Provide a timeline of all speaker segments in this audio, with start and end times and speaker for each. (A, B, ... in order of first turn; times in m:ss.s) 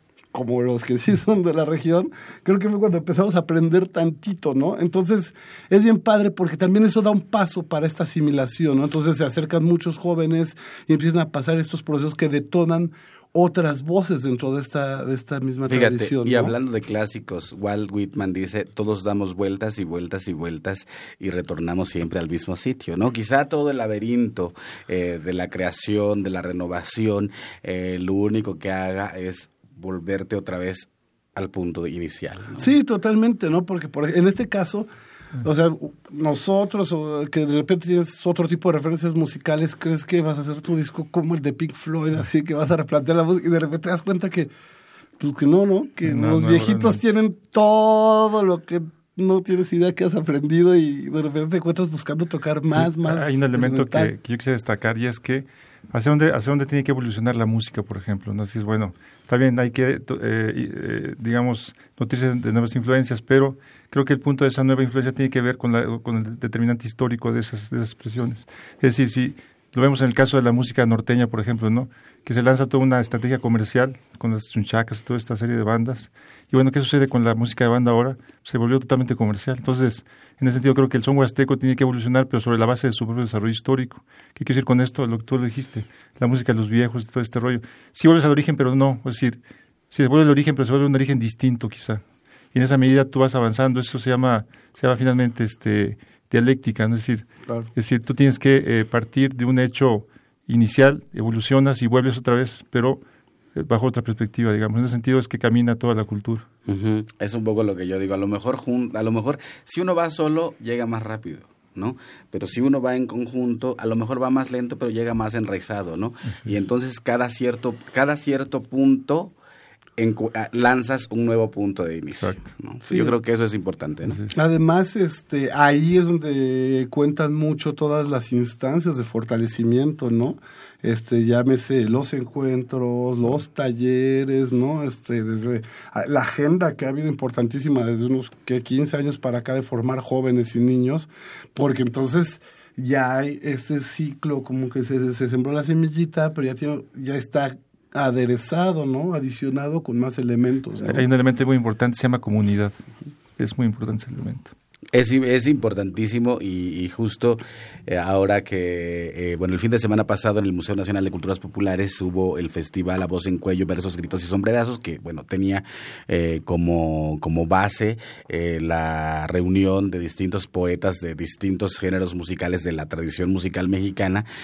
0:00.3-0:16.5 A
0:15.7-0:32.7 B
0:32.6-0:34.9 A
0:35.4-0:44.5 A
0:45.2-0:54.1 A
0:46.1-0:47.0 C
0:52.8-1:29.4 C
1:29.9-1:32.0 C
1:32.5-1:43.0 C
1:43.6-1:46.4 C
1:46.7-1:59.3 B
2:00.0-2:04.2 B
2:02.2-2:02.5 C
2:04.3-2:31.0 A
2:30.8-2:32.8 C
2:33.4-2:34.5 C
2:34.9-2:54.2 B